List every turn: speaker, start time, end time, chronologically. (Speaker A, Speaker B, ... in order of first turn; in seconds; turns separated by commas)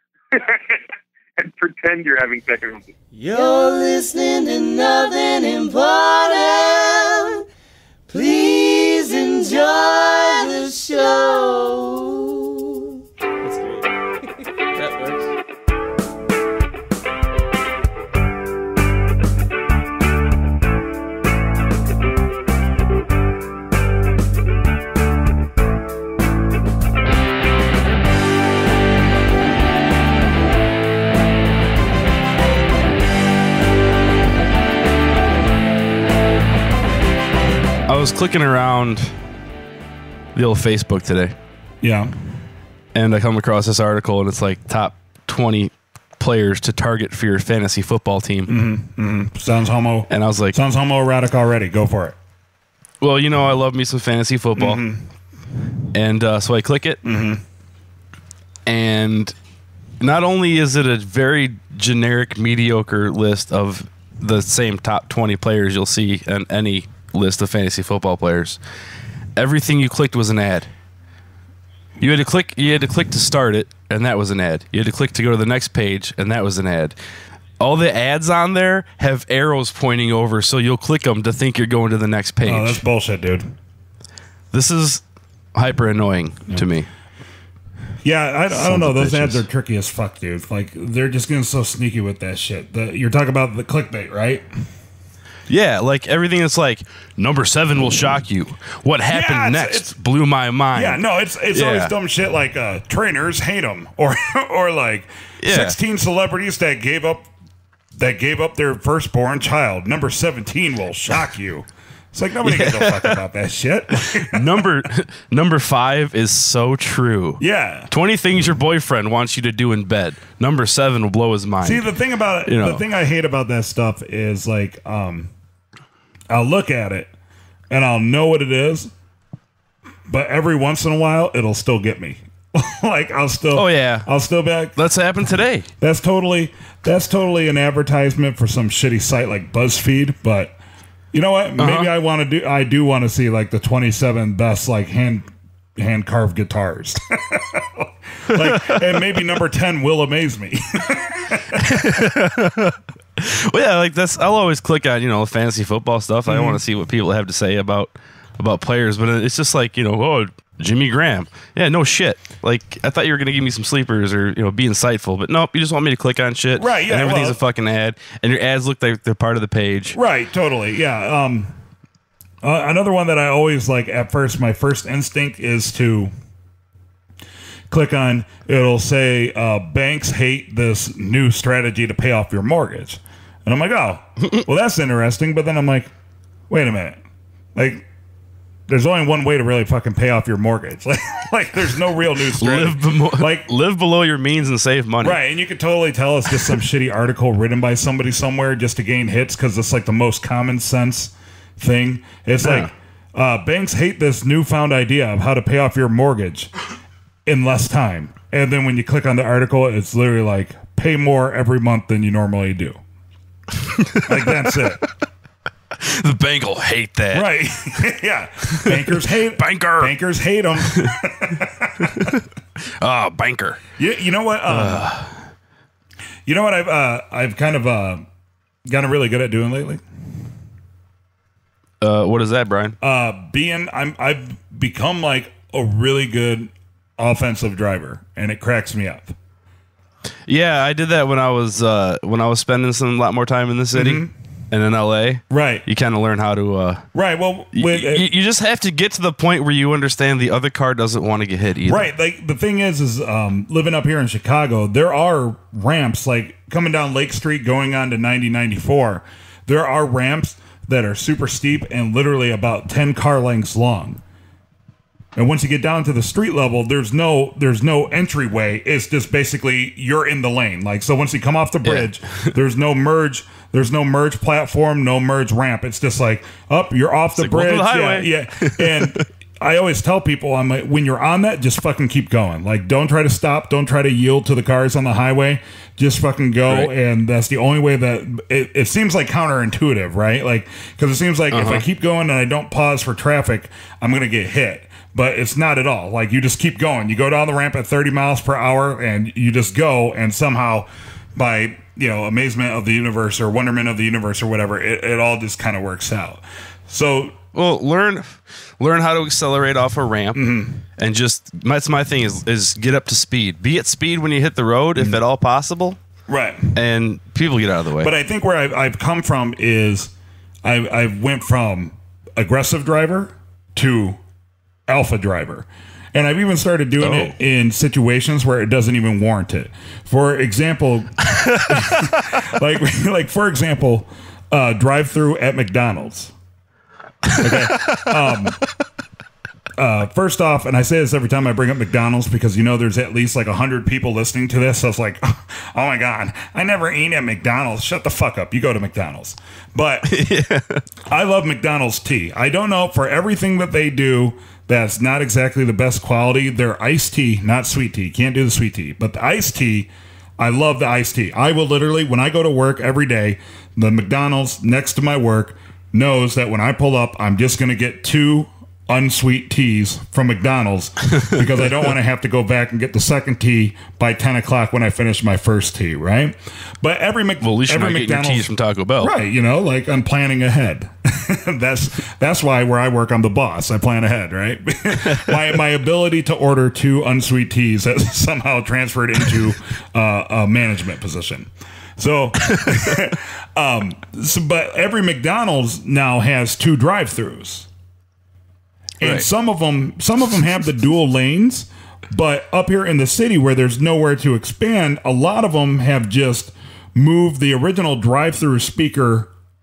Speaker A: 0.3-0.8, Speaker A: 1.4-2.9, Speaker B: 3.1-7.4, Speaker B: 8.1-12.8, Speaker B: 13.4-13.9, Speaker B: 14.7-15.3, Speaker C: 37.9-39.1, Speaker C: 40.3-41.3, Speaker D: 41.8-42.1, Speaker C: 42.9-48.5, Speaker D: 48.5-52.1, Speaker C: 50.1-50.6, Speaker C: 53.0-54.8, Speaker D: 54.5-55.0, Speaker C: 55.9-57.0, Speaker D: 57.0-57.4, Speaker C: 58.7-59.3, Speaker C: 60.0-68.6, Speaker C: 69.3-70.7, Speaker C: 72.0-76.9, Speaker C: 77.6-82.8, Speaker D: 82.4-83.5, Speaker C: 84.5-85.0, Speaker C: 85.5-86.9, Speaker D: 88.0-94.5, Speaker C: 88.5-89.4, Speaker C: 95.5-101.9, Speaker D: 99.1-99.9, Speaker D: 100.7-107.3, Speaker C: 105.4-105.8, Speaker D: 108.0-114.7, Speaker C: 112.4-113.2, Speaker C: 114.0-121.9, Speaker D: 117.4-117.9, Speaker D: 121.6-125.3, Speaker C: 122.4-122.8, Speaker D: 126.3-127.1, Speaker D: 127.7-128.9, Speaker D: 130.1-134.8, Speaker C: 133.5-134.1, Speaker C: 134.8-135.7, Speaker D: 135.8-140.6, Speaker D: 141.1-152.0, Speaker C: 141.6-141.9, Speaker C: 148.3-149.2, Speaker C: 151.6-170.0, Speaker D: 156.3-156.6, Speaker D: 166.6-167.4, Speaker D: 169.9-171.5, Speaker D: 172.4-176.1, Speaker D: 177.7-185.9, Speaker D: 186.5-187.0, Speaker D: 187.5-187.8, Speaker D: 188.7-193.5, Speaker C: 192.3-195.2, Speaker D: 195.0-206.5, Speaker C: 202.4-202.7, Speaker D: 207.2-212.8, Speaker C: 213.7-214.2, Speaker D: 214.0-214.8, Speaker C: 215.8-217.8, Speaker D: 217.1-222.2, Speaker C: 218.5-219.9, Speaker C: 220.6-220.9, Speaker C: 221.8-223.6, Speaker D: 223.8-224.9, Speaker C: 224.5-225.2, Speaker D: 226.2-228.0, Speaker D: 228.7-229.8, Speaker C: 231.8-232.8, Speaker D: 232.8-239.1, Speaker C: 240.3-246.9, Speaker D: 243.7-244.1, Speaker D: 245.3-245.6, Speaker D: 246.9-248.1, Speaker C: 247.5-251.9, Speaker D: 251.6-264.0, Speaker D: 265.1-307.2, Speaker C: 271.6-272.3, Speaker C: 277.1-279.0, Speaker C: 291.3-291.6, Speaker C: 307.3-315.8, Speaker D: 310.1-310.6, Speaker D: 316.1-316.6, Speaker C: 316.5-317.9, Speaker D: 317.8-319.9, Speaker D: 320.4-324.0, Speaker D: 324.7-336.1, Speaker C: 326.8-327.1, Speaker C: 331.1-332.0, Speaker C: 337.1-338.1, Speaker D: 337.2-338.4, Speaker D: 339.6-349.9, Speaker C: 349.9-350.6, Speaker D: 350.9-397.5, Speaker C: 377.2-378.9, Speaker C: 384.8-385.2, Speaker C: 392.3-392.8, Speaker D: 398.8-409.1, Speaker C: 398.8-399.1